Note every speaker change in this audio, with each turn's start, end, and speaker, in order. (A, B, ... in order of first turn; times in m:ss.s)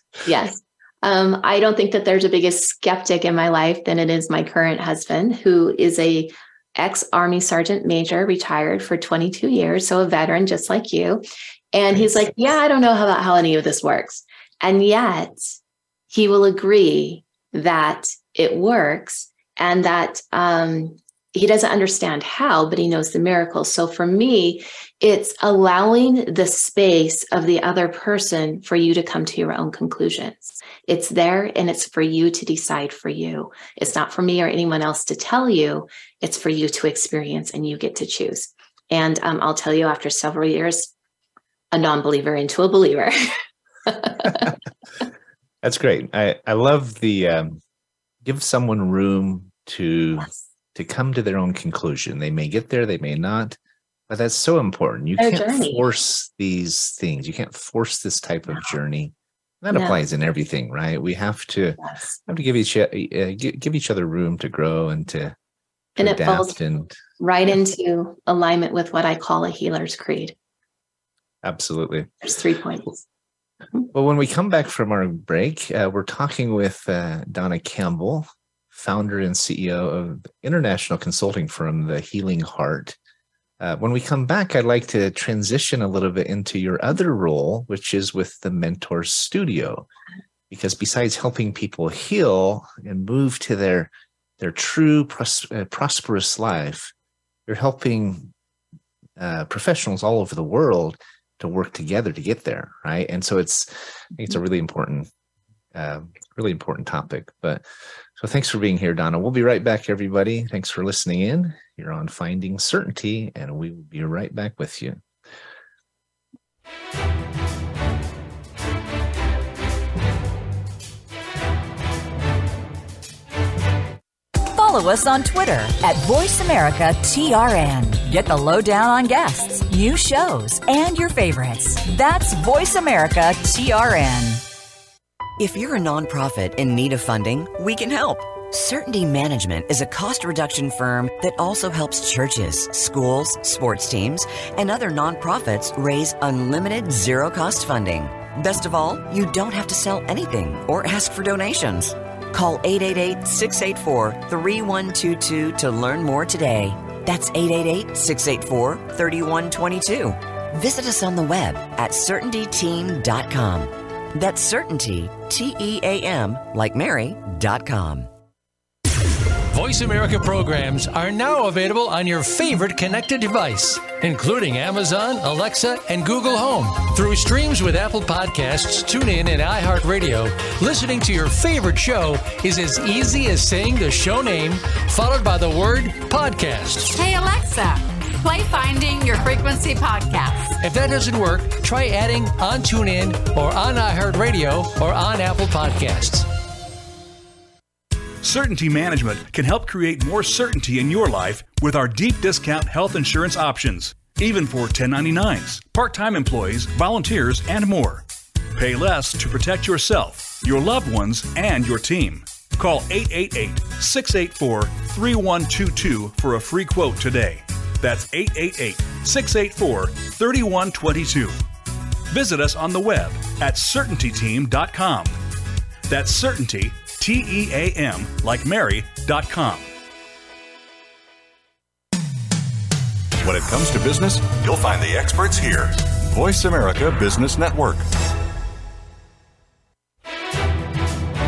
0:00.3-0:15.6 A
0:16.1-0:40.9 A
0:41.7-0:43.4 A
0:43.9-0:44.5 A
0:45.6-0:47.6 B
0:48.2-0:53.6 B
0:54.1-1:05.4 B
0:55.2-0:55.8 A
0:59.7-1:00.0 A
1:01.8-1:02.2 A
1:06.0-1:06.9 B
1:06.0-1:06.6 A
1:07.2-1:10.3 A
1:11.4-1:12.1 B
1:12.2-1:13.0 A
1:13.9-1:23.0 B
1:23.6-1:29.9 B
1:30.5-1:36.9 B
1:37.5-1:38.3 B
1:39.2-1:45.1 B
1:45.7-1:47.6 B
1:48.2-1:55.0 B
2:04.4-2:14.4 C
2:15.4-2:48.1 D
2:49.5-3:07.0 E
3:06.9-3:10.6 F
3:10.6-3:16.3 E
3:18.2-3:28.0 G
3:28.6-3:41.4 G
3:42.1-3:45.2 G
3:45.9-3:49.7 G
3:53.2-3:57.8 H